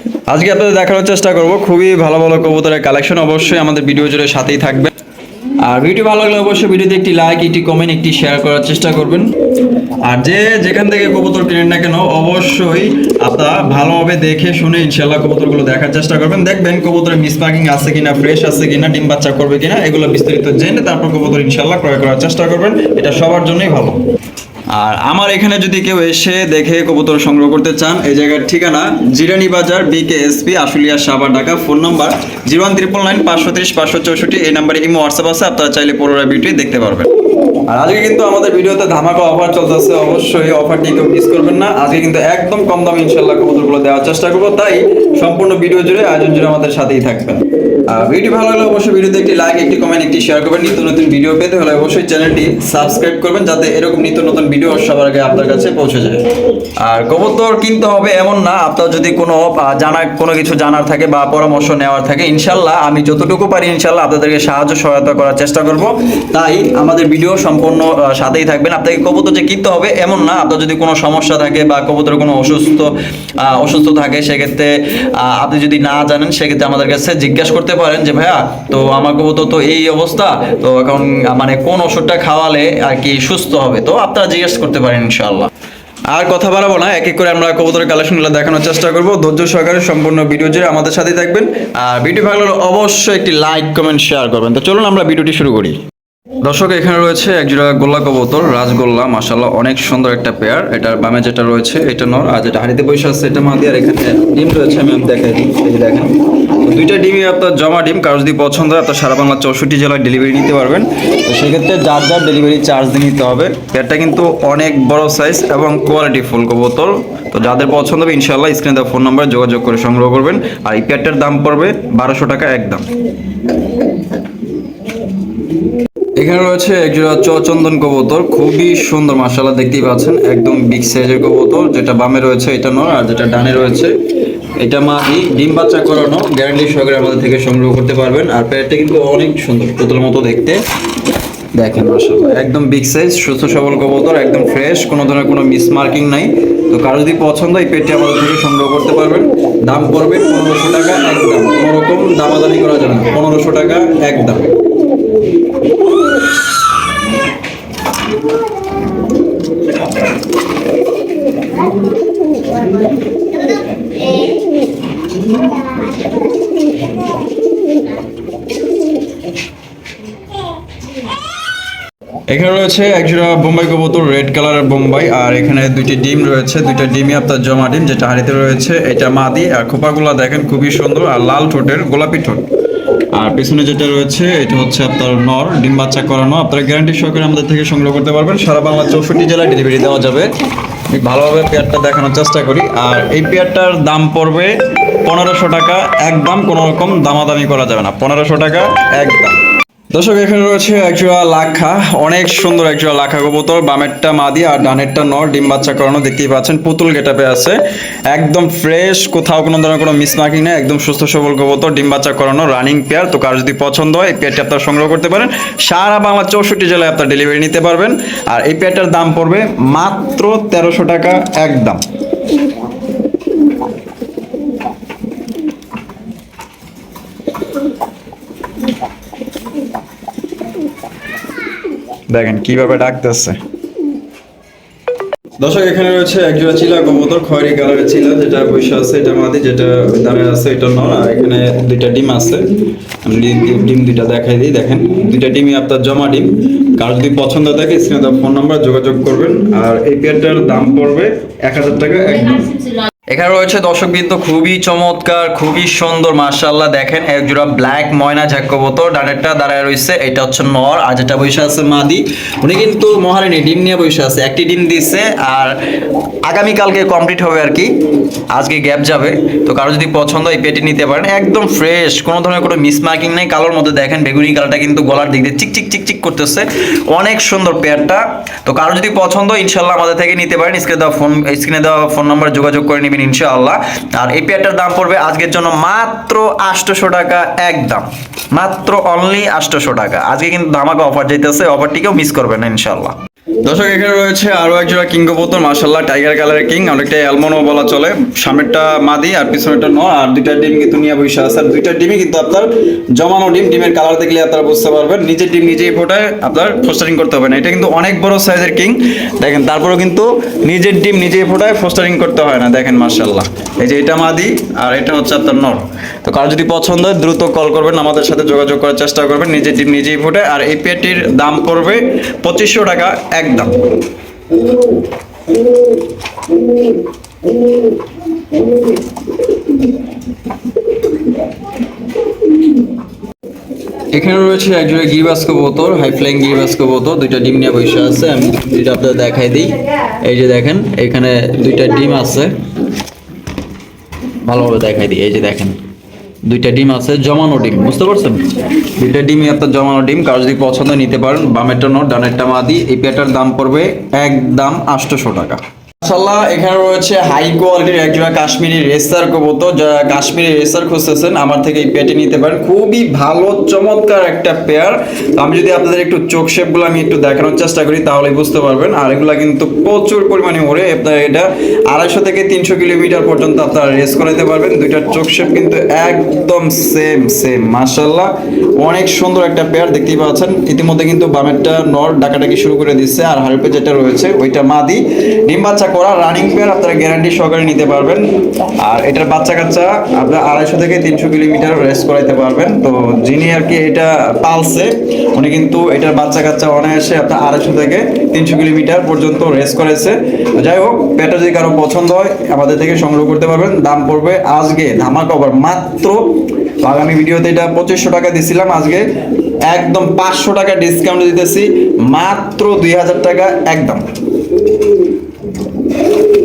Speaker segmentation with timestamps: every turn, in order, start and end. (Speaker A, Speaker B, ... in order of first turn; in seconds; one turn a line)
Speaker A: 0.3-4.9
Speaker A: 5.6-9.3
Speaker A: 10.0-24.0
Speaker A: 24.7-37.1
Speaker A: 37.7-56.2
Speaker A: 56.8-85.5
Speaker A: 86.1-95.8
Speaker A: 96.4-122.9
Speaker A: 126.2-133.9
Speaker A: 134.6-140.6
Speaker A: 141.6-154.6
Speaker A: 172.3-182.4
Speaker A: 183.1-190.3
Speaker A: 190.9-199.4
Speaker A: 199.9-207.6
Speaker A: 208.1-221.8
Speaker A: 232.1-233.4
Speaker A: 235.4-242.5
Speaker A: 243.0-265.6
Speaker A: 266.2-267.8
Speaker A: 268.3-323.6
Speaker A: 333.9-342.3
Speaker A: 344.2-345.6
Speaker A: 346.2-388.1
Speaker A: 388.6-406.1
Speaker A: 406.6-408.9
Speaker A: 409.5-413.8